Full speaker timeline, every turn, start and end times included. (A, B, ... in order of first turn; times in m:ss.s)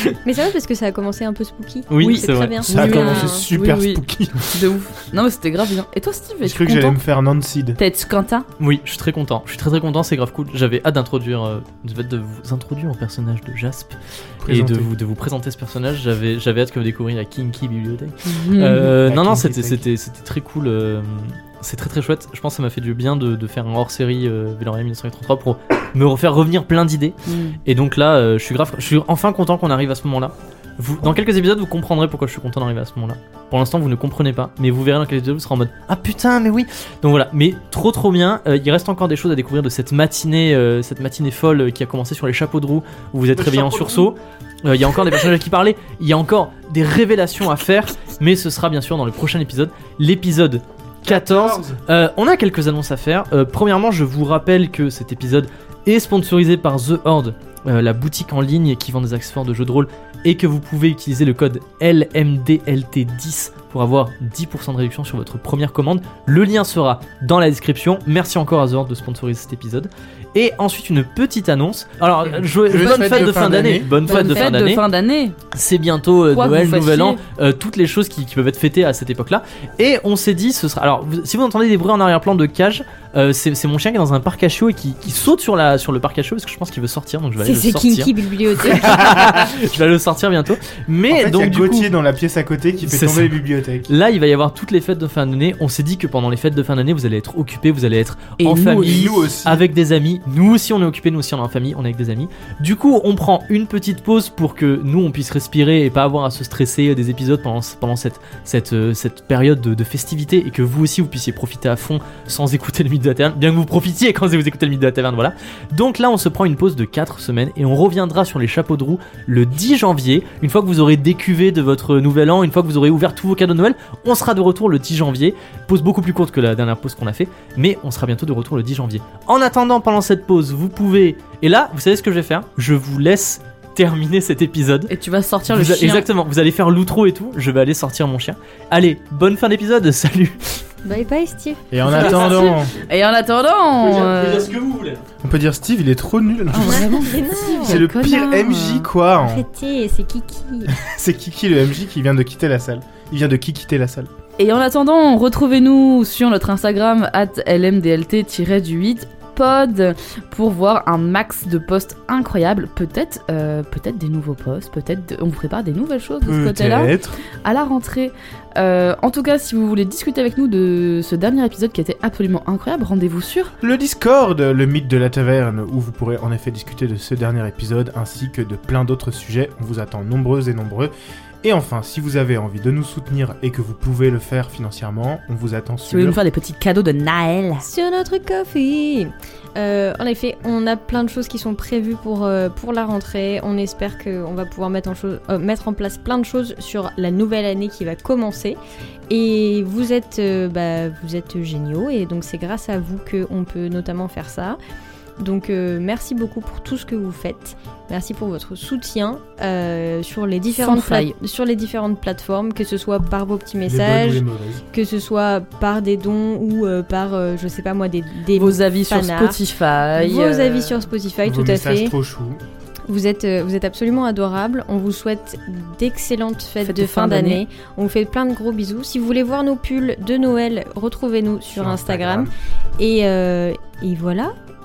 0:00.2-0:03.5 A
0:01.9-0:03.0 B
0:02.0-0:07.0 C
0:02.6-0:04.6 D
0:06.4-0:07.8 D
0:07.8-0:08.5 C
0:08.6-1:14.8 B
0:14.4-0:14.9 D
0:18.2-0:18.9 C
0:19.0-0:19.8 D
0:27.3-0:27.6 C
0:43.3-0:44.1 D
0:51.0-0:51.8 D
1:12.4-1:14.0 D
1:13.0-1:15.4 C
1:14.0-1:14.5 A
1:15.5-1:31.9 B
1:16.3-1:17.2 C
1:27.4-1:29.4 A
1:31.1-1:33.9 D
1:32.8-2:14.9 B
1:38.4-1:39.1 C
1:38.7-1:39.6 D
2:14.9-2:16.1 C
2:15.5-2:20.6 B
2:20.8-2:22.4 A
2:21.7-2:22.7 D
2:21.8-2:24.6 C
2:23.8-2:25.0 B
2:25.2-2:29.4 D
2:26.5-2:28.9 C
2:26.5-2:27.8 A
2:29.2-2:30.8 A
2:30.7-2:34.1 D
2:34.4-2:53.5 C
2:46.2-2:47.2 D
2:53.6-3:00.9 D
3:01.4-3:06.2 D
3:05.9-3:07.6 C
3:07.6-3:18.6 A
3:19.1-3:24.6 A
3:25.2-3:39.4 A
3:30.6-3:31.1 C
3:33.7-3:34.6 D
3:38.3-3:40.9 C
3:39.9-3:41.9 A
3:41.2-3:42.4 D
3:42.9-3:54.3 A
3:46.6-3:47.4 C
3:51.5-3:52.3 D